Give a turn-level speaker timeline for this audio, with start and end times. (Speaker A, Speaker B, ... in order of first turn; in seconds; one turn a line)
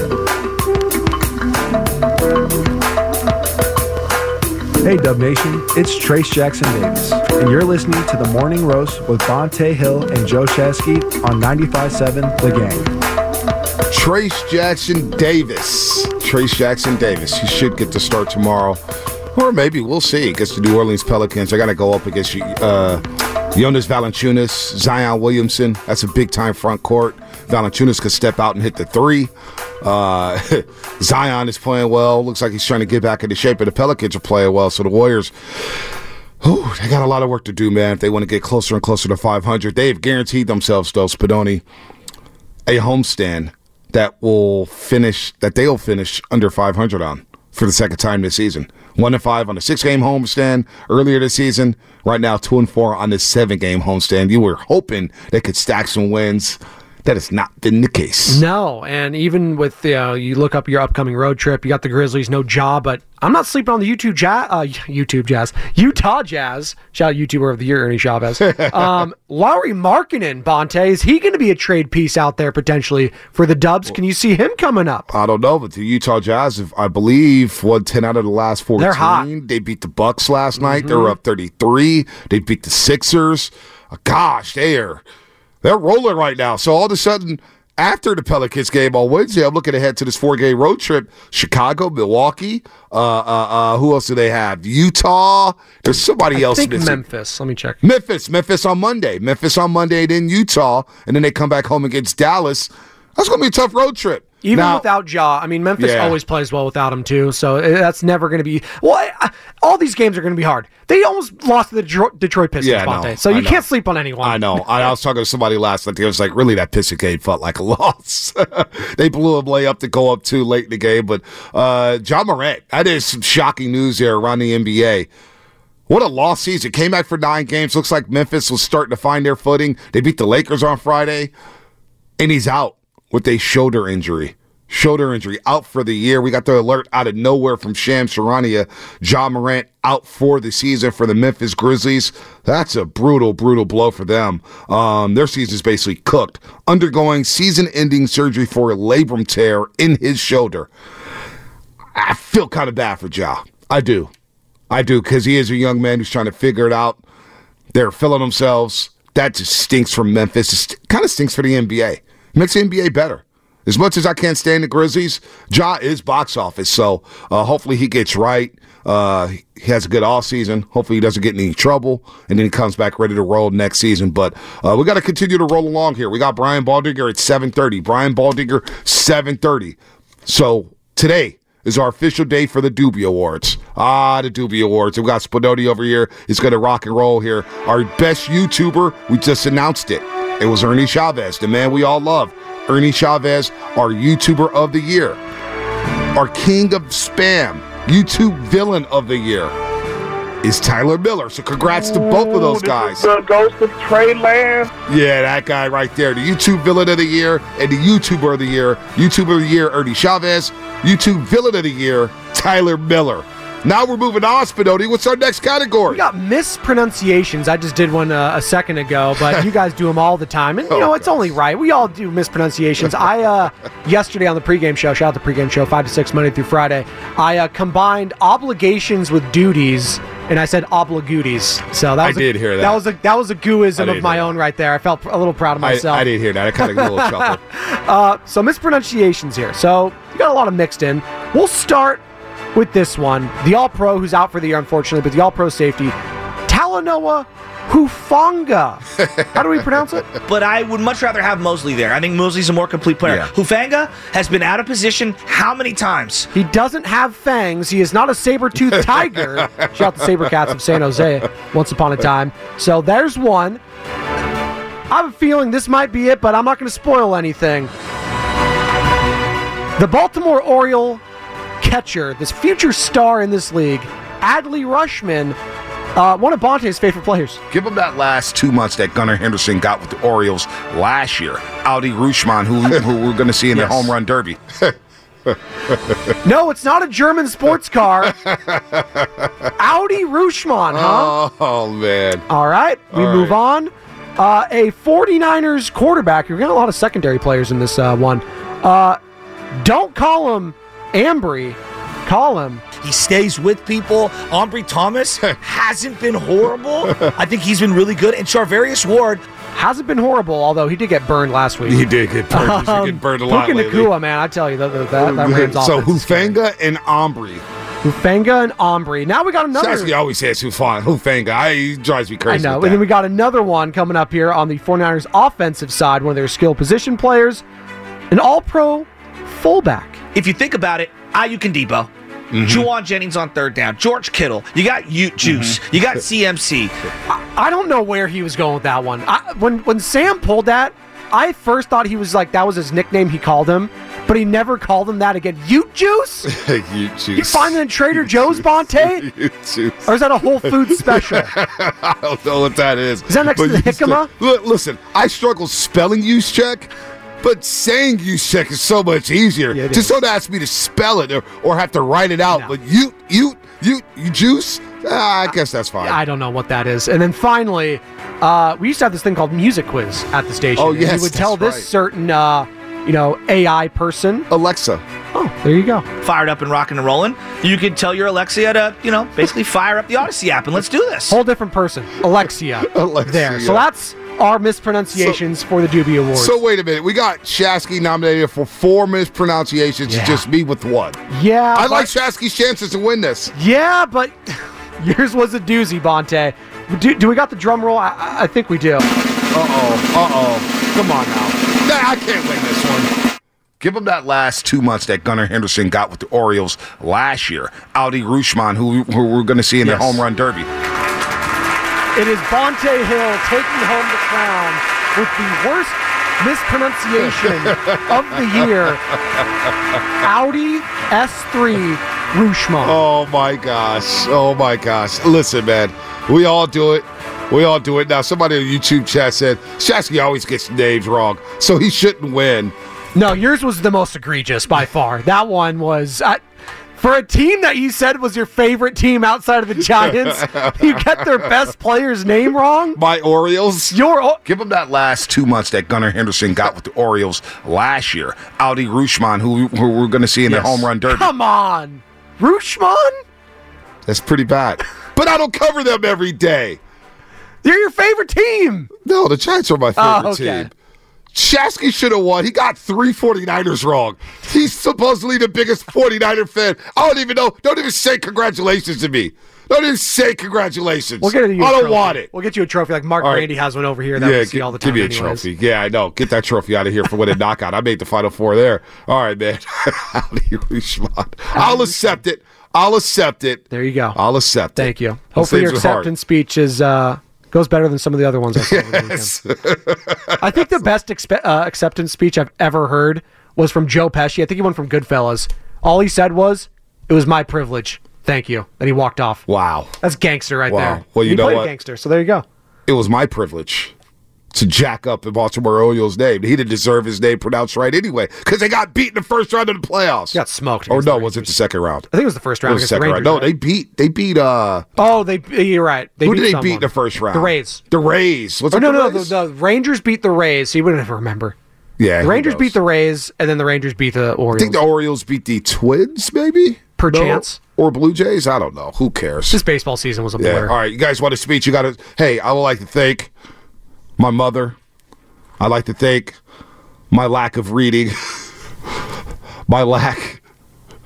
Speaker A: 4.8-12.9
Speaker B: 13.9-18.8
Speaker B: 19.3-35.8
Speaker B: 36.4-41.6
Speaker B: 42.6-58.4
Speaker C: 58.3-75.1
Speaker B: 68.4-69.0
Speaker B: 75.1-85.0
Speaker C: 78.8-79.3
Speaker C: 80.6-81.1
Speaker B: 85.6-97.0
Speaker C: 96.3-97.8
Speaker B: 97.8-104.8
Speaker C: 104.4-114.7
Speaker B: 105.8-106.2
Speaker B: 112.6-113.6
Speaker B: 114.2-125.1
Speaker B: 125.9-131.3
Speaker B: 132.2-150.7
Speaker B: 151.9-154.1
Speaker B: 154.7-157.0
Speaker B: 157.7-195.2
Speaker B: 196.1-199.5
Speaker B: 200.4-203.1
Speaker D: 201.6-204.7
Speaker B: 204.8-216.1
Speaker C: 215.9-236.1
Speaker B: 220.7-221.3
Speaker B: 232.0-232.8
Speaker B: 233.8-234.3
Speaker B: 235.6-237.4
Speaker C: 236.6-242.0
Speaker C: 242.5-245.9
Speaker C: 246.5-250.1
Speaker B: 249.0-249.6
Speaker E: 250.2-256.3
Speaker C: 256.3-263.6
Speaker B: 258.7-260.5
Speaker C: 264.9-267.7
Speaker C: 269.8-271.0
Speaker C: 271.6-275.4
Speaker C: 275.9-277.4
Speaker B: 277.5-284.7
Speaker B: 285.3-286.1
Speaker C: 286.2-288.1
Speaker B: 288.0-289.5
Speaker C: 289.6-291.1
Speaker B: 290.7-292.2
Speaker C: 292.3-299.0
Speaker B: 292.9-293.3
Speaker C: 299.6-302.6
Speaker E: 302.8-309.2
Speaker B: 306.8-307.1
Speaker C: 309.5-316.4
Speaker B: 311.6-313.9
Speaker B: 314.9-317.4
Speaker C: 317.8-319.9
Speaker B: 319.5-322.9
Speaker C: 322.3-327.4
Speaker C: 328.1-330.0
Speaker E: 330.1-331.9
Speaker B: 332.3-332.7
Speaker E: 332.4-336.7
Speaker B: 335.2-335.6
Speaker C: 337.1-346.3
Speaker B: 346.2-356.7
Speaker C: 347.1-349.1
Speaker C: 349.9-351.3
Speaker C: 353.1-354.1
Speaker B: 357.2-366.0
Speaker C: 359.5-360.0
Speaker C: 365.8-374.3
Speaker B: 370.6-371.7
Speaker B: 374.3-374.8
Speaker C: 375.1-375.9
Speaker E: 376.0-381.2
Speaker C: 381.1-386.3
Speaker B: 382.6-383.7
Speaker B: 386.1-391.0
Speaker C: 389.9-390.2
Speaker C: 391.1-391.9
Speaker B: 391.5-393.3
Speaker C: 393.3-398.8
Speaker B: 399.3-402.9
Speaker B: 403.6-410.5
Speaker C: 409.6-410.0
Speaker C: 411.9-418.9
Speaker B: 417.0-419.8
Speaker C: 420.0-422.8
Speaker B: 422.6-432.5
Speaker C: 432.9-436.2
Speaker C: 436.8-442.8
Speaker B: 439.7-441.3
Speaker B: 442.7-451.1
Speaker C: 443.7-444.2
Speaker C: 450.3-453.0
Speaker B: 453.9-456.6
Speaker C: 457.4-458.7
Speaker B: 458.8-460.5
Speaker C: 459.8-460.5
Speaker B: 461.1-472.1
Speaker C: 471.0-475.2
Speaker B: 473.0-473.3
Speaker B: 473.9-485.9
Speaker C: 481.3-481.8
Speaker C: 483.5-484.0
Speaker C: 484.6-489.1
Speaker B: 488.3-490.6
Speaker C: 490.2-499.2
Speaker B: 499.3-499.7
Speaker C: 499.8-502.2
Speaker B: 500.5-501.5
Speaker B: 502.7-503.7
Speaker B: 504.3-511.9
Speaker C: 510.1-511.3
Speaker C: 511.9-513.3
Speaker B: 512.4-514.7
Speaker C: 514.8-517.6
Speaker B: 516.0-519.1
Speaker C: 518.5-521.4
Speaker B: 521.8-522.5
Speaker C: 522.0-524.6
Speaker B: 524.3-529.4
Speaker C: 526.8-527.4
Speaker C: 529.3-530.5
Speaker B: 530.2-533.1
Speaker B: 534.0-534.5
Speaker B: 535.4-536.2
Speaker B: 536.9-538.2
Speaker B: 539.5-540.2